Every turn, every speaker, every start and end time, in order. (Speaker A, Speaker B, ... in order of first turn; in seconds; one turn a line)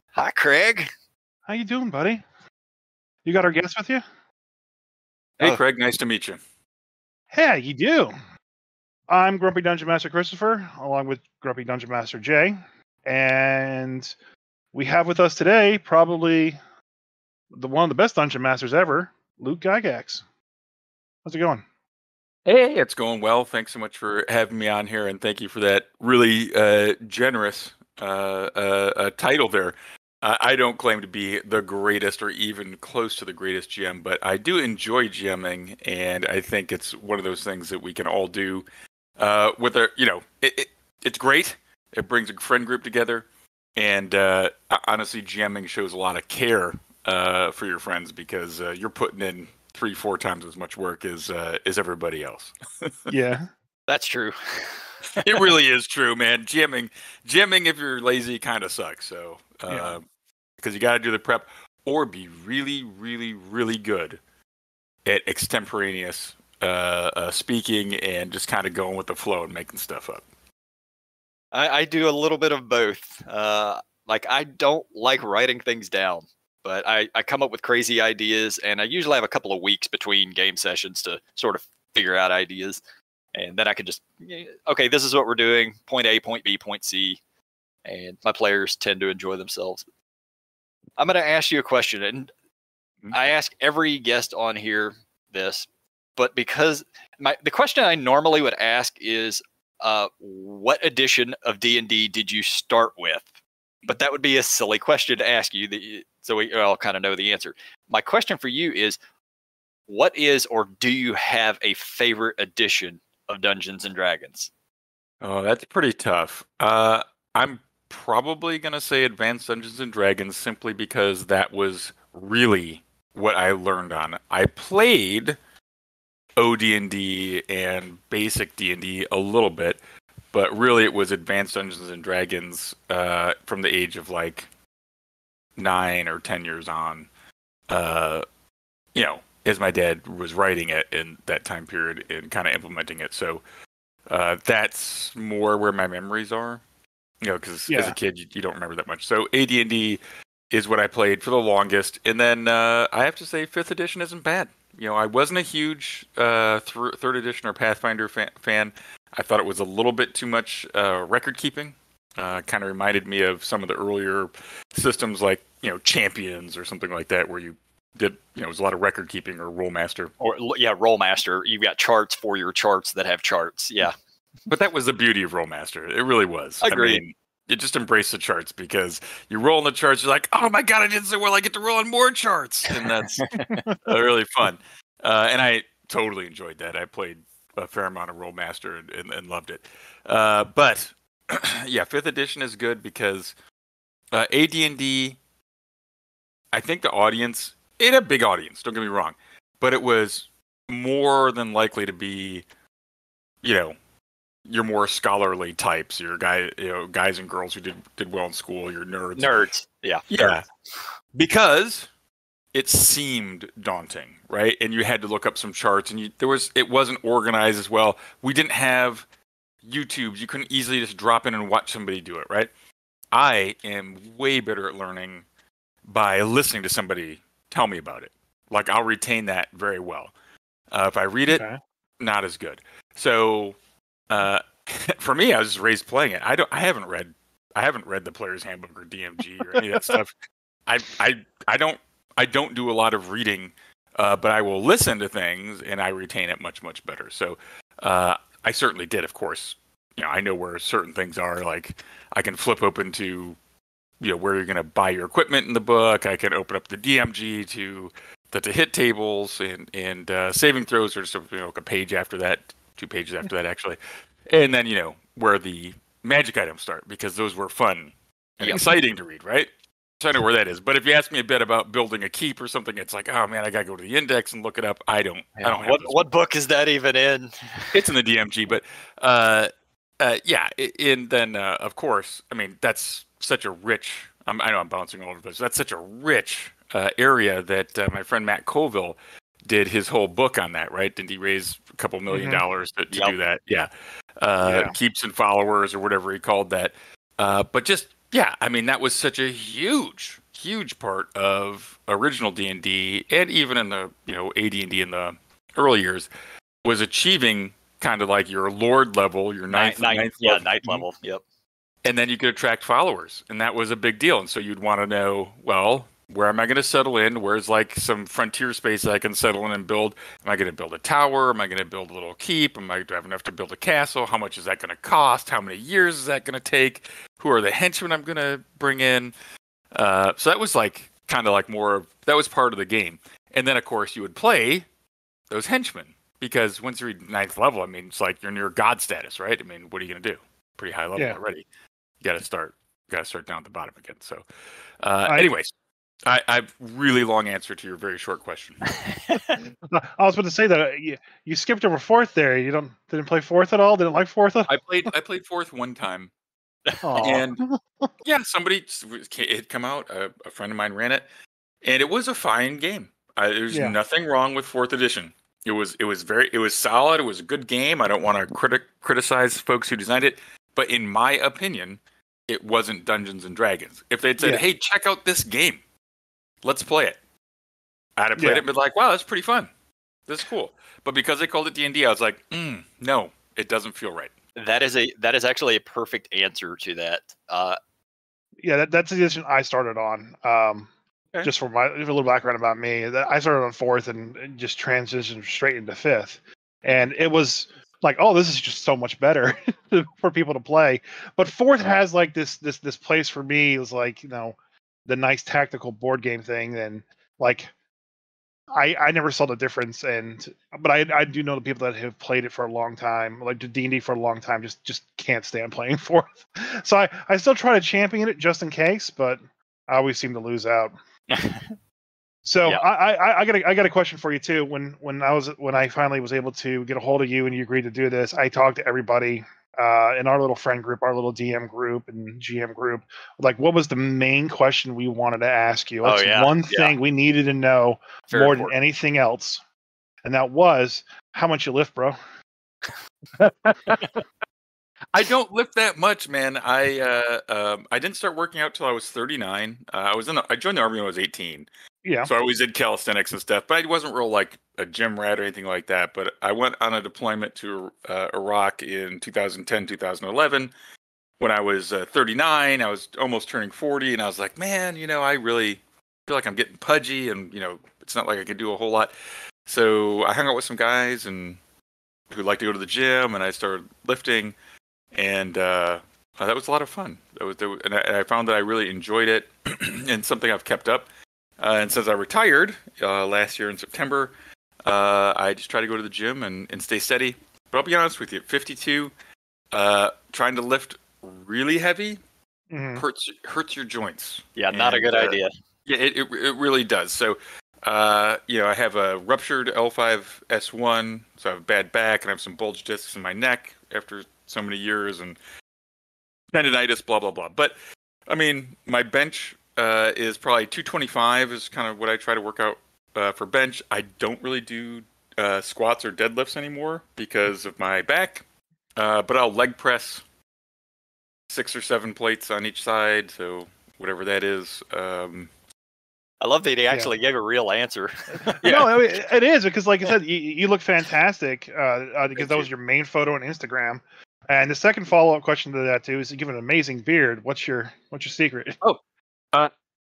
Speaker A: 0.1-0.9
Speaker B: 1.5-2.2
Speaker B: 3.2-4.0
Speaker C: 5.4-6.4
Speaker B: 7.3-8.1
Speaker B: 9.1-14.1
Speaker B: 14.7-16.6
Speaker B: 17.5-20.2
Speaker B: 21.2-21.6
Speaker C: 22.4-38.6
Speaker C: 39.2-53.1
Speaker B: 53.1-53.5
Speaker A: 53.9-55.5
Speaker C: 55.2-60.0
Speaker C: 60.6-64.2
Speaker C: 65.0-70.2
Speaker A: 71.5-82.8
Speaker A: 83.3-87.2
Speaker A: 87.8-89.8
Speaker A: 91.0-92.3
Speaker A: 93.1-103.2
Speaker A: 103.8-109.0
Speaker A: 109.9-114.5
Speaker C: 115.2-125.4
Speaker C: 126.4-129.8
Speaker C: 130.3-134.5
Speaker C: 135.6-137.1
Speaker C: 137.7-138.2
Speaker C: 138.9-143.4
Speaker C: 144.1-146.6
Speaker C: 147.2-170.1
Speaker B: 147.7-147.9
Speaker A: 170.2-173.9
Speaker C: 174.5-193.3
Speaker A: 176.6-177.0
Speaker A: 183.2-183.6
Speaker B: 183.5-183.7
Speaker C: 194.1-195.2
Speaker C: 196.5-202.4
Speaker C: 203.4-203.8
Speaker C: 204.4-209.3
Speaker A: 209.2-210.4
Speaker C: 210.1-210.4
Speaker C: 211.1-211.9
Speaker C: 212.5-219.1
Speaker C: 219.6-222.5
Speaker C: 223.1-225.2
Speaker C: 225.8-230.1
Speaker C: 230.7-231.4
Speaker B: 231.3-231.6
Speaker C: 232.0-233.6
Speaker C: 234.1-240.1
Speaker C: 240.7-253.4
Speaker C: 254.0-263.8
Speaker C: 264.3-276.1
Speaker A: 275.4-277.8
Speaker C: 277.7-306.1
Speaker B: 292.1-292.4
Speaker B: 294.4-294.7
Speaker C: 306.6-310.9
Speaker A: 309.5-311.2
Speaker C: 311.8-329.1
Speaker C: 329.7-334.7
Speaker C: 335.3-341.4
Speaker C: 342.0-344.2
Speaker C: 344.8-345.5
Speaker B: 345.1-345.3
Speaker C: 346.1-348.7
Speaker A: 348.7-349.2
Speaker B: 349.7-354.5
Speaker C: 354.5-356.1
Speaker B: 356.8-357.6
Speaker C: 357.0-357.4
Speaker C: 358.0-361.0
Speaker C: 361.6-375.6
Speaker B: 363.5-363.8
Speaker C: 376.4-377.0
Speaker C: 378.0-379.5
Speaker B: 378.2-378.4
Speaker C: 380.1-384.1
Speaker A: 384.4-387.6
Speaker B: 388.4-390.7
Speaker B: 391.2-407.5
Speaker B: 408.5-420.7
Speaker A: 421.1-421.5
Speaker B: 422.2-439.4
Speaker A: 435.8-436.7
Speaker A: 438.1-438.5
Speaker B: 440.0-442.0
Speaker B: 443.2-443.8
Speaker C: 444.9-451.5
Speaker B: 451.8-452.1
Speaker C: 452.0-460.5
Speaker C: 461.2-468.9
Speaker C: 469.5-471.4
Speaker C: 472.1-474.4
Speaker C: 474.9-480.9
Speaker C: 481.4-484.1
Speaker C: 484.6-488.9
Speaker C: 489.5-492.0
Speaker B: 492.5-492.8
Speaker C: 492.8-505.2
Speaker A: 494.4-495.3
Speaker C: 506.3-507.5
Speaker C: 508.1-518.2
Speaker C: 518.8-520.0
Speaker C: 521.3-525.3
Speaker A: 526.2-528.4
Speaker B: 528.3-538.6
Speaker C: 528.4-528.8